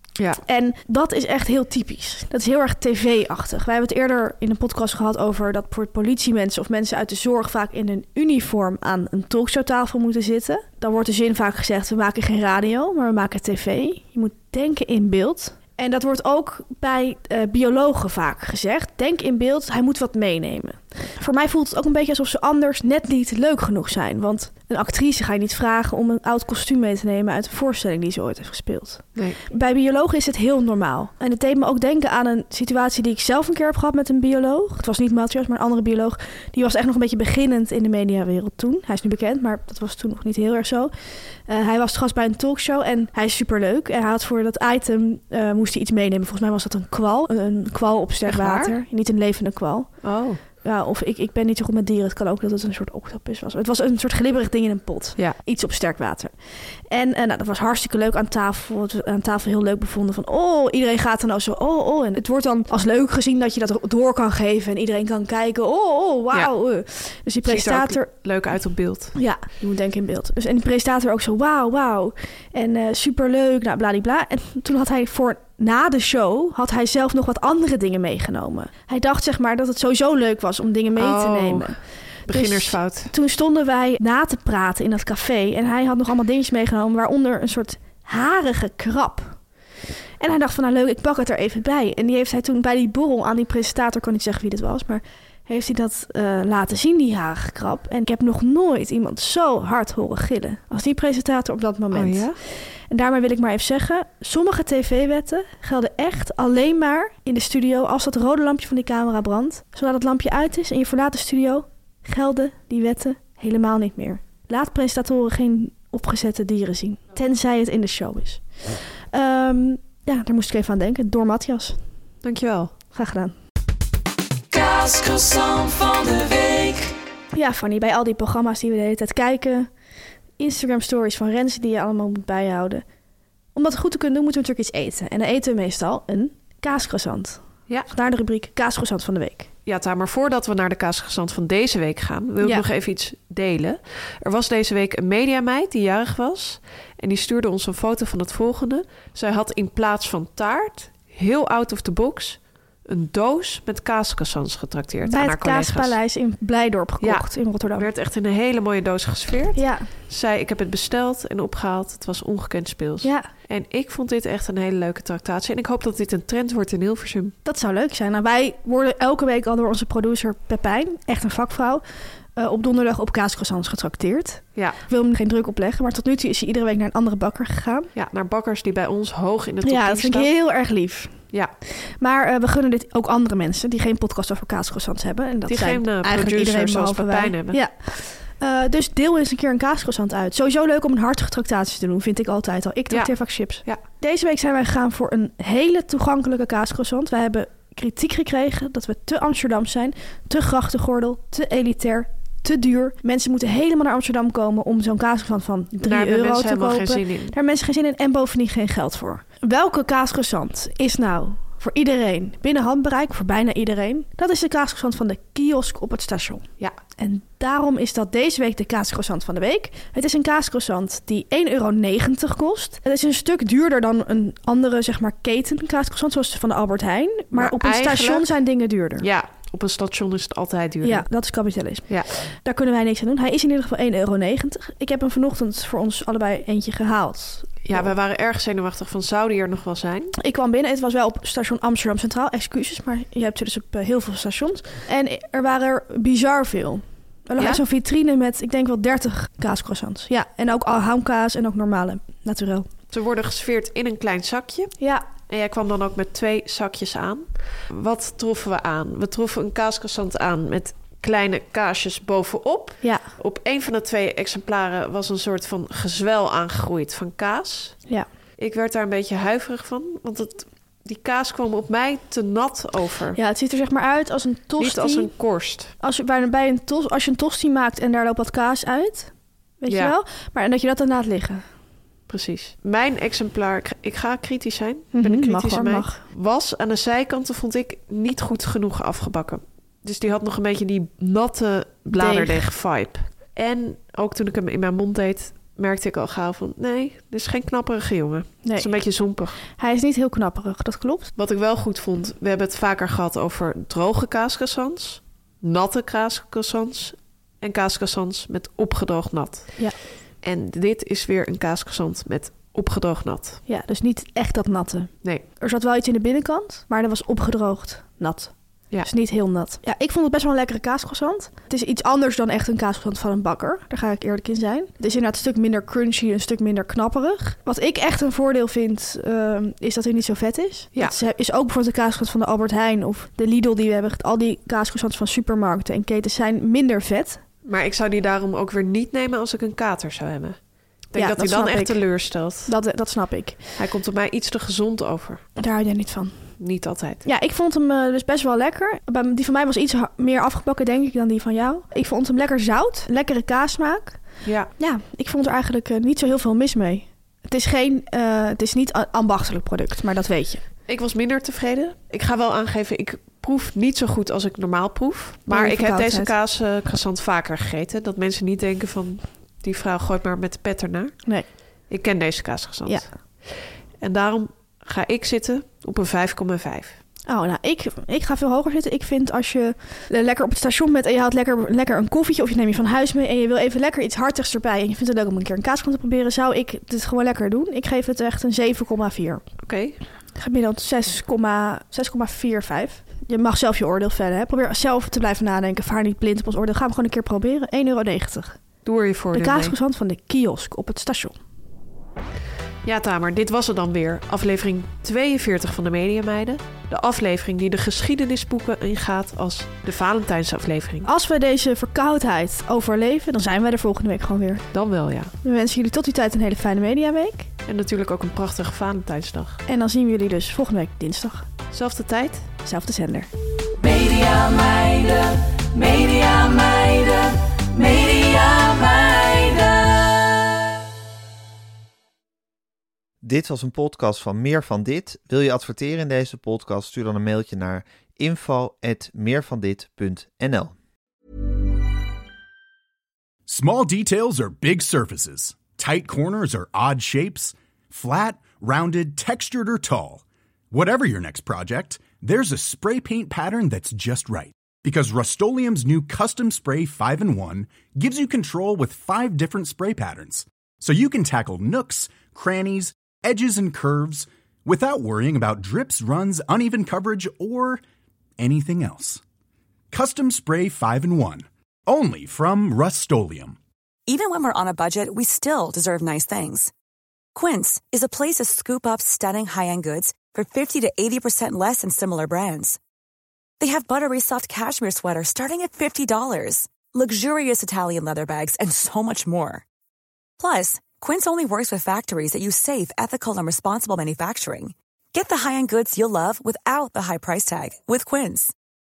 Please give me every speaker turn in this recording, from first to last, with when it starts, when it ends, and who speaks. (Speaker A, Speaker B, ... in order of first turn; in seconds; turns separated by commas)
Speaker A: 0.4-40.9, Speaker A: 41.5-68.1, Speaker B: 48.2-48.8, Speaker B: 50.0-50.4, Speaker B: 67.4-69.2, Speaker A: 69.1-89.4, Speaker B: 81.0-83.1, Speaker A: 90.2-121.8, Speaker B: 101.9-102.4, Speaker B: 122.2-122.7, Speaker A: 122.9-123.3, Speaker C: 124.5-126.9, Speaker A: 127.3-129.7, Speaker A: 130.4-132.8, Speaker A: 133.5-139.5, Speaker B: 139.7-156.0, Speaker A: 142.4-142.7, Speaker A: 155.0-157.9, Speaker B: 157.0-167.3, Speaker A: 159.5-159.9, Speaker A: 163.0-163.3, Speaker A: 167.4-171.8, Speaker A: 172.3-177.9, Speaker B: 177.9-180.3, Speaker A: 179.6-181.2, Speaker A: 182.0-216.4, Speaker B: 185.5-187.6, Speaker B: 192.9-193.8, Speaker B: 205.8-207.3, Speaker A: 217.0-229.1, Speaker B: 227.3-228.4, Speaker B: 229.0-231.1, Speaker A: 230.8-237.9, Speaker B: 231.9-232.1, Speaker B: 237.6-240.1, Speaker A: 240.1-252.7, Speaker B: 247.4-247.6, Speaker B: 252.9-267.8, Speaker A: 262.8-263.1, Speaker B: 268.4-273.2, Speaker A: 273.1-275.1, Speaker B: 274.6-275.7, Speaker A: 275.8-281.4, Speaker B: 279.7-279.9, Speaker B: 282.1-299.4, Speaker A: 284.9-286.0, Speaker A: 291.9-292.5, Speaker A: 298.4-298.7, Speaker A: 299.5-301.1, Speaker B: 301.1-309.6, Speaker B: 310.2-313.4, Speaker A: 313.5-337.2, Speaker B: 337.4-340.4, Speaker B: 340.9-342.5, Speaker A: 340.9-341.8, Speaker A: 342.4-343.4, Speaker B: 343.6-345.2, Speaker A: 345.4-346.3, Speaker B: 346.4-347.0, Speaker A: 347.0-354.0, Speaker B: 354.2-354.5, Speaker A: 354.6-360.4, Speaker B: 360.7-371.0, Speaker A: 365.3-366.1, Speaker B: 371.7-372.9, Speaker A: 372.6-372.9, Speaker B: 373.8-376.8, Speaker A: 377.1-389.2, Speaker B: 389.4-389.8, Speaker A: 390.1-398.4, Speaker B: 398.6-399.6, Speaker A: 399.1-401.1, Speaker B: 402.6-410.9, Speaker A: 410.8-414.4, Speaker B: 414.5-415.1, Speaker A: 415.2-417.3, Speaker B: 417.4-419.4, Speaker A: 419.4-421.3, Speaker B: 421.5-422.3, Speaker A: 422.4-423.1, Speaker C: 423.6-430.3, Speaker D: 433.0-440.5, Speaker E: 443.3-467.6, Speaker E: 468.2-469.0, Speaker E: 469.7-473.4, Speaker F: 473.9-476.5, Speaker F: 477.1-482.6, Speaker F: 483.4-489.4, Speaker F: 490.2-498.3